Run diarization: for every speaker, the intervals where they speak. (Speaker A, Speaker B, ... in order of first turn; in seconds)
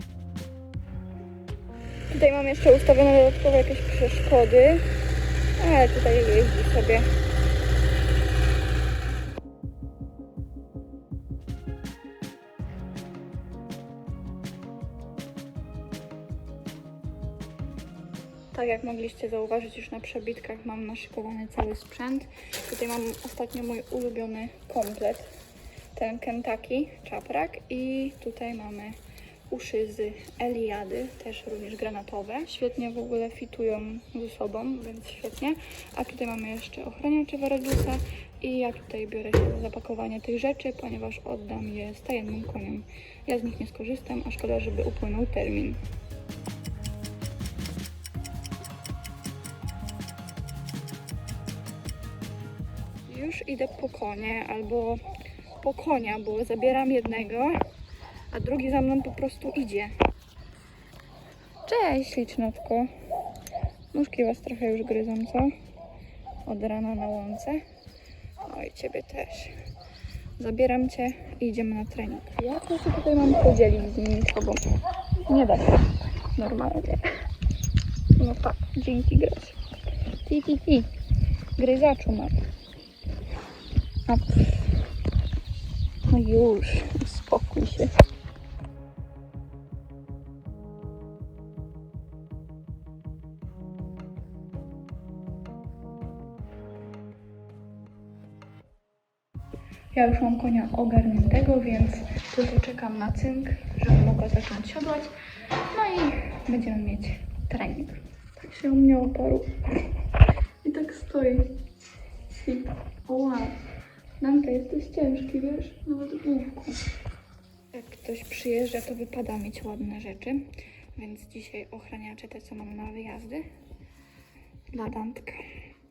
Speaker A: 2.1-4.9, 5.6-7.1, 18.5-25.3, 25.9-29.0, 29.5-45.8, 53.0-57.6, 58.3-59.9, 61.6-62.9, 63.9-65.5, 66.5-67.6, 68.4-69.5, 70.4-74.6, 75.2-77.2, 78.2-79.6, 80.2-80.9, 81.6-82.3, 84.0-84.7, 86.1-87.9, 99.9-105.1, 105.7-109.5, 110.6-111.5, 112.3-113.6, 114.2-116.8, 117.7-123.5, 124.7-125.5